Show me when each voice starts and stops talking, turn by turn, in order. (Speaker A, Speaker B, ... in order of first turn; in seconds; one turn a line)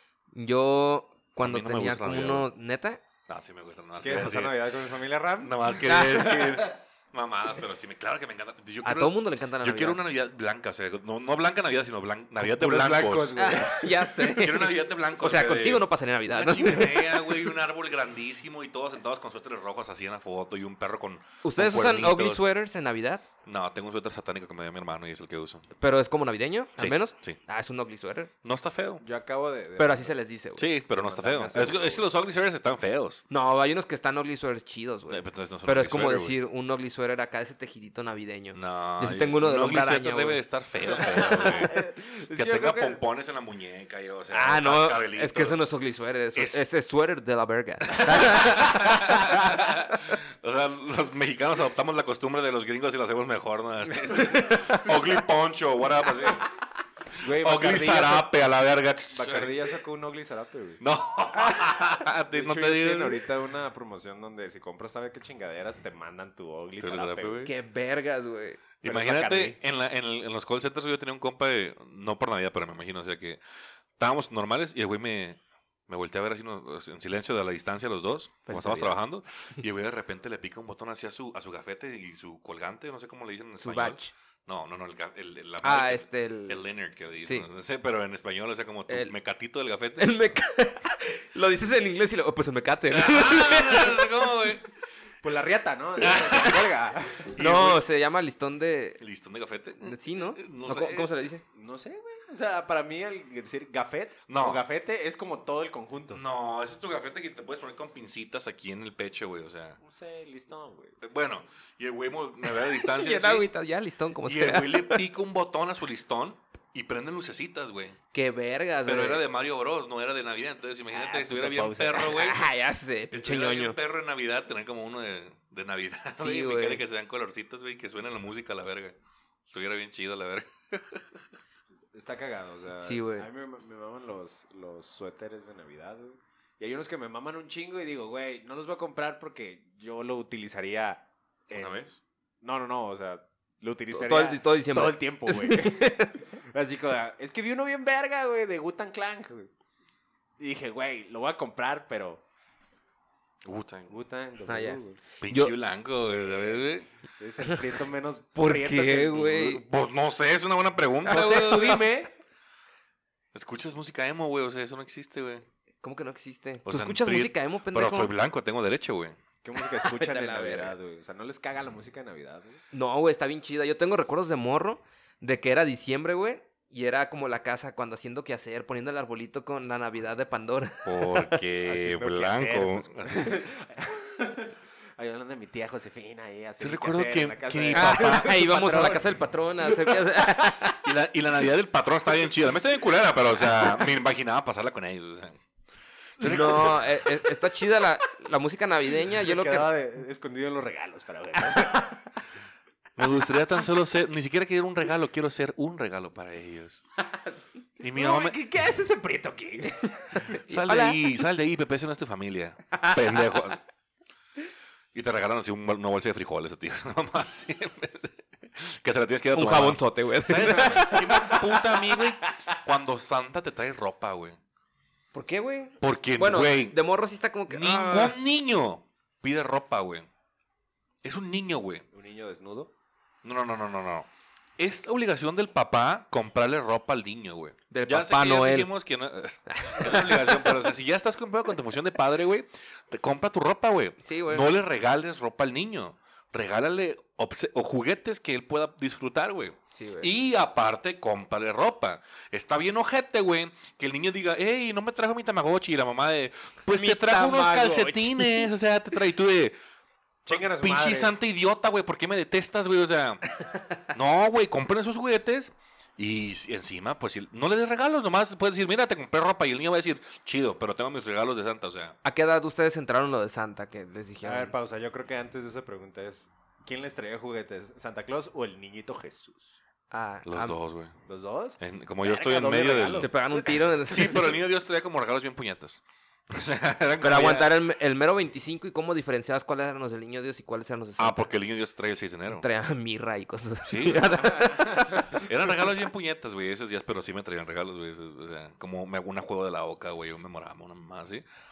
Speaker A: 0.3-3.0
Speaker B: 1.4-2.5
Speaker B: 3.3-4.6
Speaker C: 4.0-5.6
Speaker B: 5.4-13.5
Speaker A: 5.8-6.6
Speaker A: 8.8-10.0
Speaker C: 12.4-14.1
Speaker A: 13.4-17.5
Speaker B: 14.2-22.5
Speaker A: 21.4-23.2
Speaker B: 23.4-25.6
Speaker A: 25.8-28.3
Speaker B: 26.8-27.4
Speaker B: 28.4-29.0
Speaker C: 29.0-30.1
Speaker A: 29.8-30.7
Speaker B: 30.6-33.2
Speaker C: 30.9-32.0
Speaker A: 33.3-40.4
Speaker B: 35.1-36.4
Speaker B: 38.5-45.6
Speaker C: 41.0-43.0
Speaker A: 44.3-50.2
Speaker B: 46.4-46.6
Speaker B: 47.9-56.5
Speaker C: 57.2-58.3
Speaker B: 57.2-59.7
Speaker C: 59.1-60.8
Speaker B: 60.8-63.2
Speaker C: 61.4-67.5
Speaker B: 66.8-67.5
Speaker A: 67.5-68.6
Speaker B: 68.8-73.4
Speaker C: 68.8-69.6
Speaker B: 74.0-90.1
Speaker A: 78.5-79.0
Speaker A: 83.6-84.1
Speaker A: 85.6-86.6
Speaker A: 88.9-89.1
Speaker A: 90.0-94.3
Speaker B: 92.9-94.7
Speaker C: 95.2-97.3
Speaker B: 96.0-96.7
Speaker B: 97.3-97.8
Speaker A: 97.4-99.0
Speaker B: 99.0-101.1
Speaker A: 99.8-101.4
Speaker C: 101.5-106.2
Speaker B: 104.3-104.6
Speaker B: 106.1-109.8
Speaker C: 109.8-111.0
Speaker B: 111.0-113.5
Speaker A: 112.5-115.0
Speaker B: 114.2-118.0
Speaker A: 118.1-119.2
Speaker B: 118.8-122.4
Speaker C: 120.9-122.3
Speaker A: 122.0-123.8
Speaker B: 123.1-129.0
Speaker A: 126.2-126.8
Speaker B: 129.5-131.3
Speaker C: 131.9-141.9
Speaker A: 132.8-133.3
Speaker B: 141.5-142.0
Speaker C: 142.4-149.5
Speaker A: 143.9-146.2
Speaker C: 150.4-152.2
Speaker B: 153.4-153.9
Speaker C: 153.9-155.0
Speaker A: 154.5-155.5
Speaker B: 155.2-156.9
Speaker C: 157.2-159.2
Speaker A: 158.4-159.6
Speaker B: 159.1-161.8
Speaker C: 161.1-162.1
Speaker A: 161.1-161.8
Speaker B: 163.3-165.4
Speaker A: 165.8-168.1
Speaker B: 166.7-169.2
Speaker C: 169.4-172.6
Speaker A: 169.6-170.8
Speaker A: 172.7-181.4
Speaker B: 180.8-183.4
Speaker C: 181.7-190.2
Speaker B: 186.6-188.3
Speaker A: 187.8-190.8
Speaker B: 190.8-195.4
Speaker B: 196.2-196.8
Speaker A: 196.2-199.7
Speaker C: 196.3-196.8
Speaker C: 199.1-202.1
Speaker B: 203.0-206.8
Speaker B: 207.8-208.4
Speaker C: 207.9-210.4
Speaker B: 210.4-213.6
Speaker A: 210.5-211.0
Speaker B: 214.9-224.4
Speaker A: 219.3-221.4
Speaker C: 220.6-222.0
Speaker A: 225.1-228.2
Speaker B: 225.8-226.8
Speaker B: 227.5-230.1
Speaker B: 231.0-231.9
Speaker C: 231.9-232.7
Speaker B: 233.2-259.6
Speaker A: 237.7-238.7
Speaker A: 239.5-240.5
Speaker A: 244.0-244.5
Speaker A: 249.8-250.1
Speaker A: 256.7-258.5
Speaker C: 260.3-261.1
Speaker B: 260.3-263.2
Speaker B: 263.8-272.0
Speaker A: 272.0-274.5
Speaker C: 274.2-279.6
Speaker A: 279.9-280.6
Speaker B: 280.3-280.9
Speaker C: 281.1-283.7
Speaker B: 281.6-283.1
Speaker A: 283.0-284.3
Speaker B: 283.9-287.5
Speaker A: 287.0-291.2
Speaker B: 291.0-292.4
Speaker A: 292.3-295.3
Speaker B: 293.6-301.2